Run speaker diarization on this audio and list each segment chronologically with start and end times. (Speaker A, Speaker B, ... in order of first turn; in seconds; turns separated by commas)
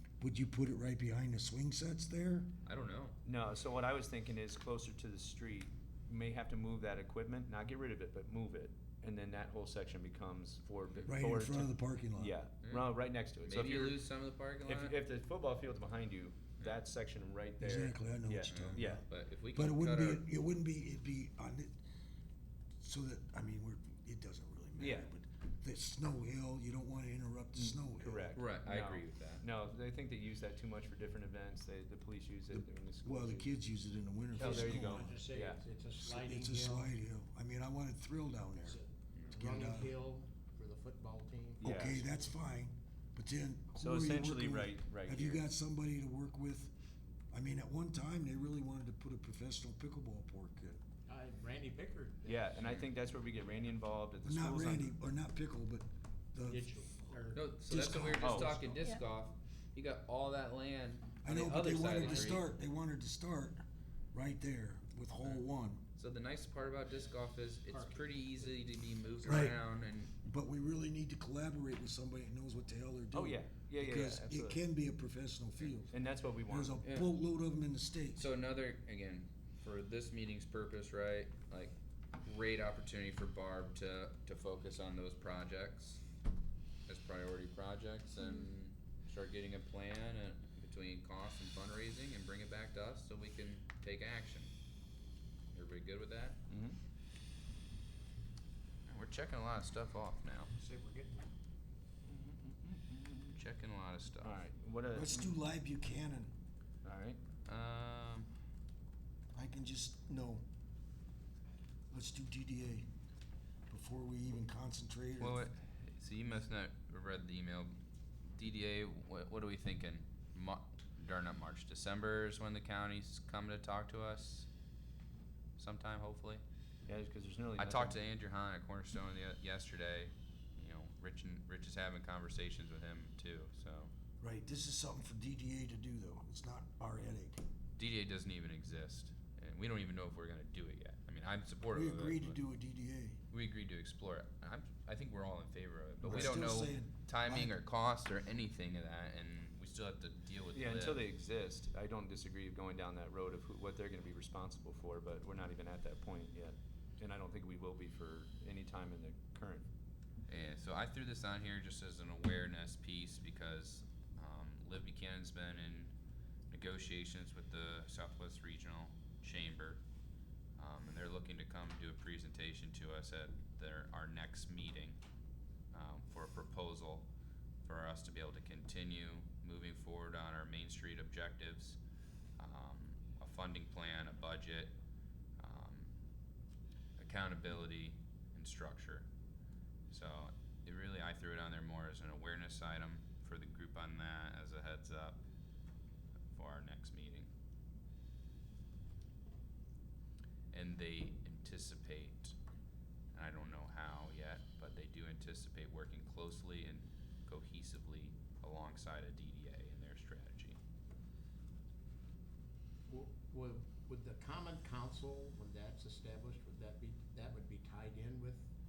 Speaker A: 0.2-2.5, Speaker B: 2.6-3.2, Speaker C: 3.2-14.0, Speaker A: 11.0-12.3, Speaker B: 12.6-12.9, Speaker B: 13.4-15.0, Speaker C: 14.6-19.0, Speaker A: 17.6-21.8, Speaker B: 18.5-20.2, Speaker A: 22.8-28.3, Speaker C: 24.8-25.1, Speaker C: 27.5-33.5, Speaker B: 28.3-29.4, Speaker A: 32.5-35.2, Speaker D: 34.3-36.9, Speaker C: 34.3-35.6, Speaker A: 36.0-39.9, Speaker D: 38.6-42.2, Speaker C: 41.6-42.0, Speaker A: 41.6-46.7, Speaker C: 43.8-45.4, Speaker A: 47.3-50.8, Speaker D: 51.1-52.6, Speaker C: 52.2-54.9, Speaker A: 54.2-56.7, Speaker D: 56.5-57.5, Speaker B: 57.3-62.4, Speaker A: 57.7-58.9, Speaker C: 58.2-58.6, Speaker A: 61.2-63.6, Speaker D: 61.9-62.4, Speaker A: 64.1-65.8, Speaker B: 66.0-70.1, Speaker D: 67.7-68.5, Speaker A: 69.2-69.6, Speaker A: 70.2-75.9, Speaker C: 73.1-74.6, Speaker C: 75.9-76.8, Speaker A: 76.5-78.3, Speaker B: 76.8-77.1, Speaker B: 78.1-86.0, Speaker B: 86.9-94.5, Speaker B: 95.5-96.4, Speaker C: 96.5-96.8, Speaker B: 98.9-100.5, Speaker D: 100.5-101.3, Speaker C: 102.0-103.4, Speaker B: 103.3-104.4, Speaker C: 104.2-105.3, Speaker A: 104.9-106.3, Speaker C: 106.8-107.2, Speaker B: 107.5-108.3, Speaker A: 109.3-110.4, Speaker A: 111.9-112.9, Speaker A: 113.7-115.4, Speaker B: 115.2-117.8, Speaker B: 118.3-124.5, Speaker B: 125.6-126.4, Speaker C: 126.9-128.0, Speaker B: 127.6-133.9, Speaker A: 134.2-137.4, Speaker B: 137.8-142.4, Speaker A: 141.7-143.2, Speaker B: 143.3-151.0, Speaker C: 146.0-146.4, Speaker A: 146.0-147.5, Speaker C: 150.5-159.7, Speaker B: 160.3-165.9, Speaker B: 166.5-169.8, Speaker B: 170.6-175.0, Speaker B: 175.7-177.1, Speaker B: 177.6-181.8, Speaker B: 182.4-184.8, Speaker B: 185.4-185.9, Speaker B: 187.0-189.1, Speaker B: 189.9-195.2, Speaker B: 196.3-197.3, Speaker B: 200.5-202.3, Speaker B: 203.1-210.6, Speaker D: 212.9-218.5